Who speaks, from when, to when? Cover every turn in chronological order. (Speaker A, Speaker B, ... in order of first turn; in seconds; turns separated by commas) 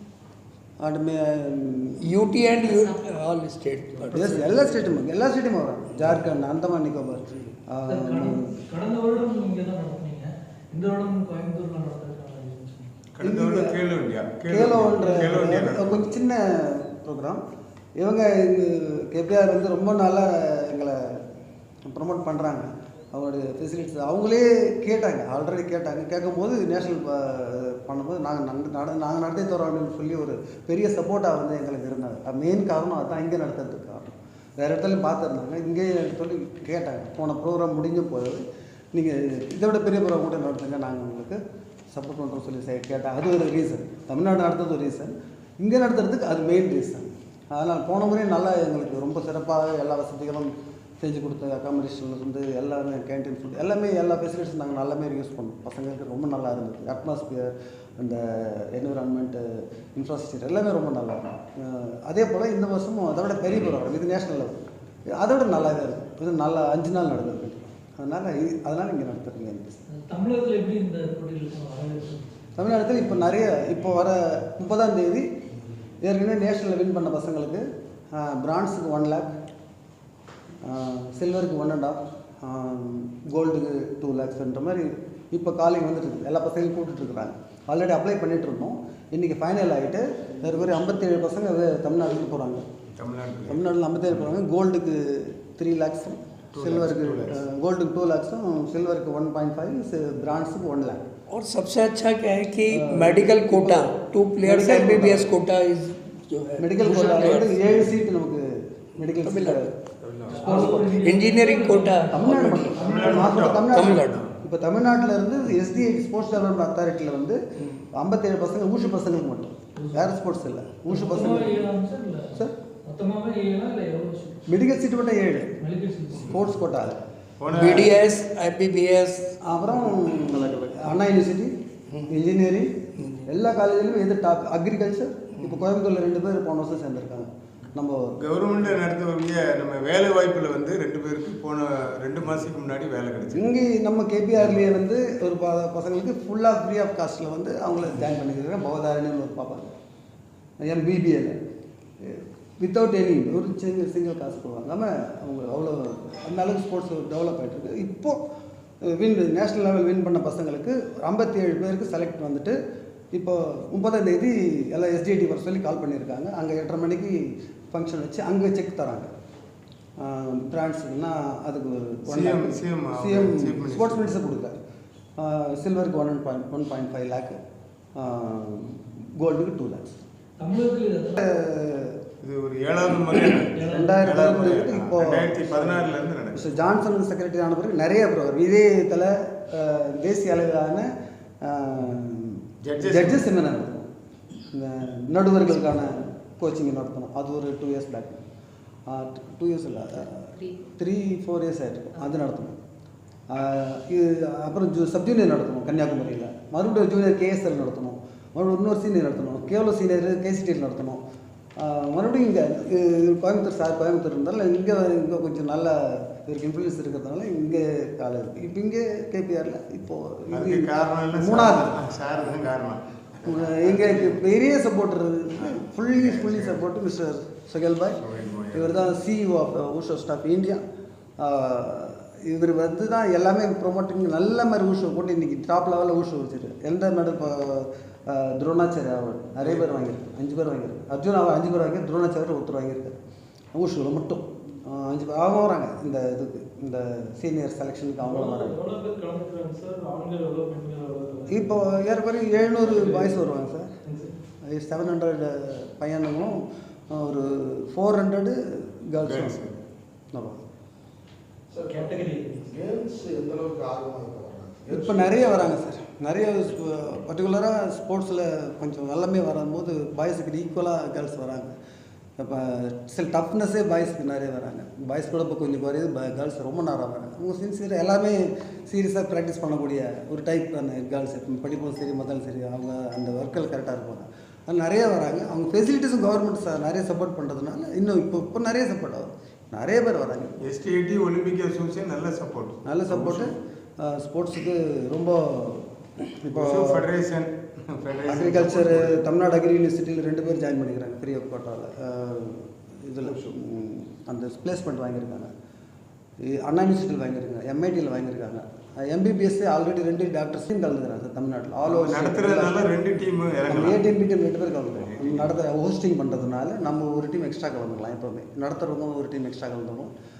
Speaker A: 0.8-2.0, Speaker B: 2.0-4.6, Speaker A: 4.1-8.5, Speaker C: 7.9-12.9, Speaker D: 13.2-16.0, Speaker A: 13.2-13.8, Speaker A: 14.5-17.4, Speaker A: 18.0-21.2, Speaker A: 21.9-38.4, Speaker A: 38.9-41.4, Speaker A: 41.9-64.5, Speaker A: 65.1-69.8, Speaker C: 69.9-72.3, Speaker A: 72.6-75.3, Speaker A: 76.0-77.6, Speaker A: 78.1-79.3, Speaker A: 80.6-92.6, Speaker D: 93.0-93.6, Speaker A: 93.5-101.0, Speaker D: 96.5-97.3, Speaker B: 101.3-107.9, Speaker A: 102.7-105.3, Speaker A: 106.6-109.7, Speaker B: 109.2-109.7, Speaker D: 110.0-110.4, Speaker C: 110.3-113.4, Speaker A: 110.4-111.0, Speaker B: 110.5-112.8, Speaker A: 112.1-117.4, Speaker D: 112.5-114.3, Speaker B: 113.7-114.2, Speaker A: 117.9-121.7, Speaker C: 119.8-120.1, Speaker C: 120.9-124.5, Speaker A: 124.5-125.5, Speaker C: 125.6-126.3, Speaker A: 126.2-127.0, Speaker D: 127.4-127.9, Speaker B: 127.5-129.3, Speaker A: 129.4-131.5, Speaker A: 132.1-132.7, Speaker B: 133.0-133.3, Speaker A: 133.3-138.1, Speaker D: 138.2-143.4, Speaker A: 143.3-149.7, Speaker A: 150.6-151.4, Speaker A: 152.0-158.2, Speaker A: 158.8-162.6, Speaker A: 163.1-167.1, Speaker A: 167.7-169.1, Speaker A: 170.0-174.6, Speaker D: 172.1-174.1, Speaker A: 175.2-177.4, Speaker A: 178.0-180.0, Speaker C: 180.4-181.2, Speaker A: 181.2-182.0, Speaker D: 182.2-186.4, Speaker C: 183.5-184.1, Speaker A: 183.6-190.9, Speaker A: 191.4-193.9, Speaker D: 192.6-193.2, Speaker A: 194.5-198.2, Speaker A: 198.9-202.6, Speaker A: 203.3-211.0, Speaker A: 211.6-221.8, Speaker D: 220.3-224.2, Speaker A: 223.2-228.0, Speaker D: 225.4-226.6, Speaker D: 228.0-228.8, Speaker A: 228.5-230.6, Speaker A: 231.2-243.0, Speaker A: 243.5-248.6, Speaker C: 248.0-251.6, Speaker A: 251.3-253.7, Speaker C: 252.4-253.2, Speaker C: 253.8-254.1, Speaker A: 254.4-259.4, Speaker D: 259.0-259.6, Speaker A: 260.1-260.4, Speaker E: 261.5-265.5, Speaker C: 261.7-262.5, Speaker A: 264.7-271.5, Speaker A: 272.2-290.4, Speaker D: 290.4-293.3, Speaker A: 292.6-296.9, Speaker D: 296.3-299.0, Speaker A: 298.1-305.3, Speaker A: 306.2-312.7, Speaker D: 311.6-313.8, Speaker A: 313.5-319.9, Speaker D: 314.9-315.3